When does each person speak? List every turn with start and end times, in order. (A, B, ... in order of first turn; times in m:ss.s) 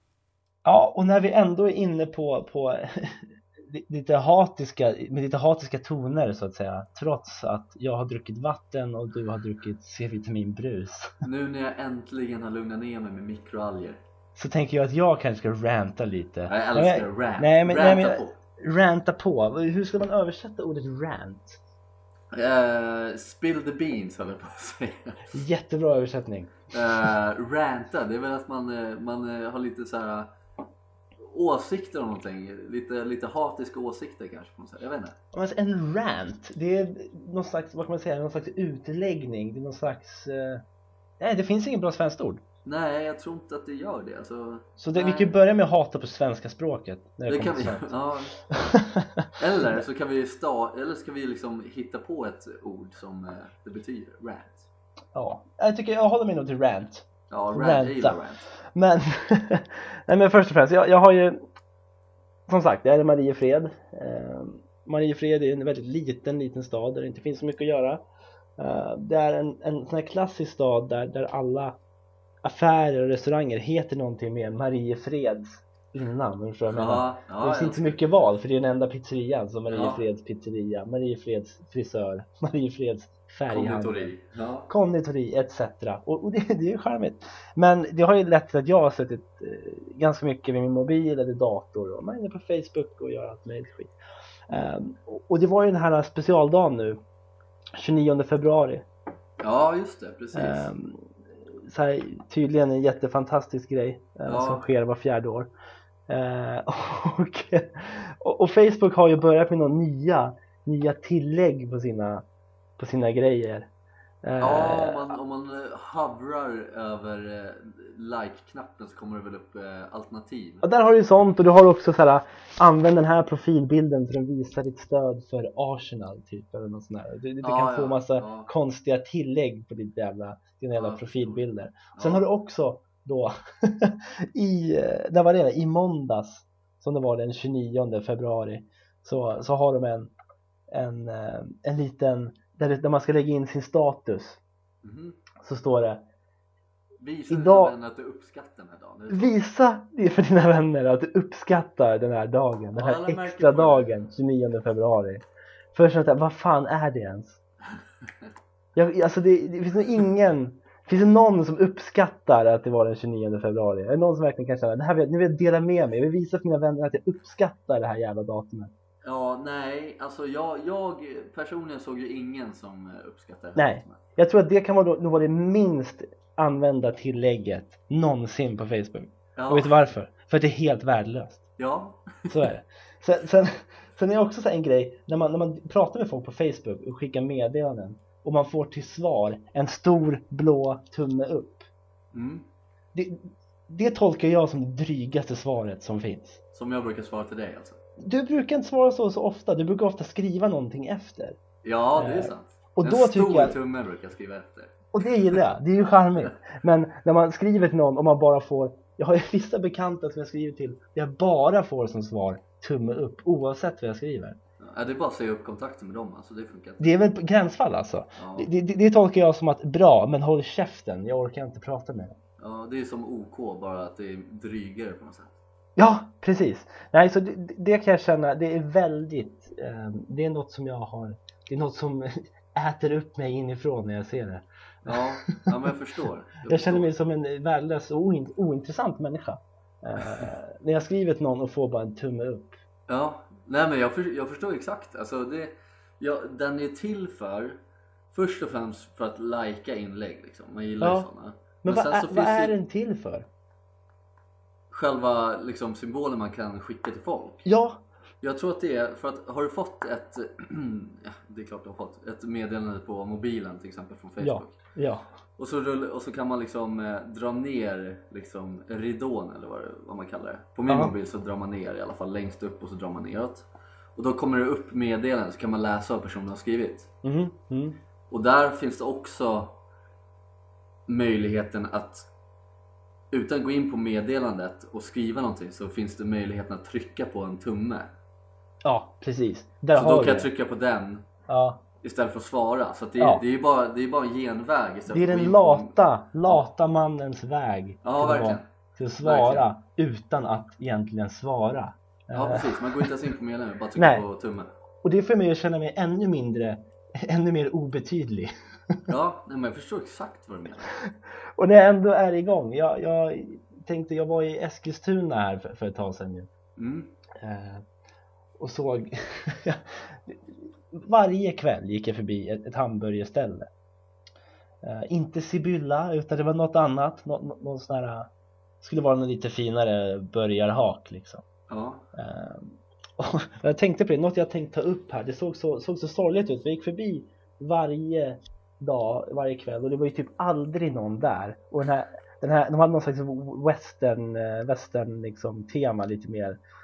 0:00.6-0:11.2 A
0:11.2-0:14.0 B
0:14.4-0:21.6 A
0:16.5-0:18.4 B
0:22.3-0:25.3 B
0:25.3-0:26.7 A
0:26.7-0:30.3 B
0:31.2-0:35.2 B
0:35.3-0:40.6 A
0:41.2-0:42.4 A
0:42.6-0:45.3 B
0:44.8-0:49.3 A
0:47.3-0:48.3 B
0:49.4-0:54.7 B
0:55.1-1:01.4 A
0:57.3-0:58.5 B
1:02.5-1:08.0 A
1:08.6-1:11.8 A
1:12.4-1:24.1 A
1:16.7-1:18.0 B
1:19.7-1:20.0 B
1:23.5-1:24.7 B
1:24.7-1:33.9 A
1:34.5-1:37.0 A
1:37.8-1:38.8 A
1:39.4-1:40.7 B
1:40.3-1:45.5 A
1:44.2-1:44.6 B
1:46.1-1:52.2 A
1:52.8-1:53.7 A
1:54.2-1:55.1 A
1:54.4-2:00.6 B
2:00.6-2:20.1 A
2:07.4-2:08.5 B
2:10.8-2:11.4 B
2:11.9-2:12.2 B
2:20.7-2:24.4 A
2:24.8-2:25.2 B
2:25.4-2:26.0 A
2:27.0-2:29.3 B
2:27.3-2:27.7 A
2:29.1-2:37.4 A
2:32.7-2:34.0 B
2:38.7-2:48.7 A
2:49.0-2:54.0 B
2:53.6-3:01.4 A
2:59.4-2:59.8 B
3:01.6-3:02.4 B
3:02.3-3:11.7 A
3:12.1-3:12.4 B
3:12.9-3:16.4 A
3:16.5-3:17.8 B
3:18.0-3:21.4 A
3:21.6-3:24.7 B
3:22.0-3:23.6 A
3:24.9-3:34.4 A
3:34.6-3:36.8 B
3:36.8-3:42.2 A
3:38.2-3:38.5 B
3:42.4-3:45.3 B
3:45.8-3:55.5 A
3:54.8-3:56.9 B
3:56.4-4:02.6 A
4:02.9-4:07.6 B
4:08.1-4:12.5 B
4:10.8-4:11.1 A
4:11.6-4:13.3 A
4:14.7-4:17.4 B
4:17.4-4:17.8 A
4:18.2-4:24.5 B
4:24.2-4:25.1 A
4:25.4-4:36.9 B
4:30.7-4:30.9 A
4:37.0-4:37.8 A
4:38.1-4:39.6 B
4:40.9-4:42.1 B
4:43.1-4:47.9 B
4:48.6-4:50.3 A
4:49.7-4:51.0 B
4:51.3-4:51.6 A
4:51.8-4:55.7 B
4:53.0-4:53.2 A
4:54.9-5:02.9 A
4:57.8-4:58.5 B
4:59.0-4:59.5 B
5:02.1-5:04.5 B
5:03.8-5:04.0 A
5:04.8-5:08.8 A
5:08.9-5:10.7 B
5:11.4-5:16.3 A
5:16.6-5:16.9 B
5:17.2-5:17.6 A
5:18.4-5:23.5 A
5:24.6-5:28.1 A
5:28.6-5:31.2 A
5:31.5-5:31.8 B
5:31.9-5:46.4 A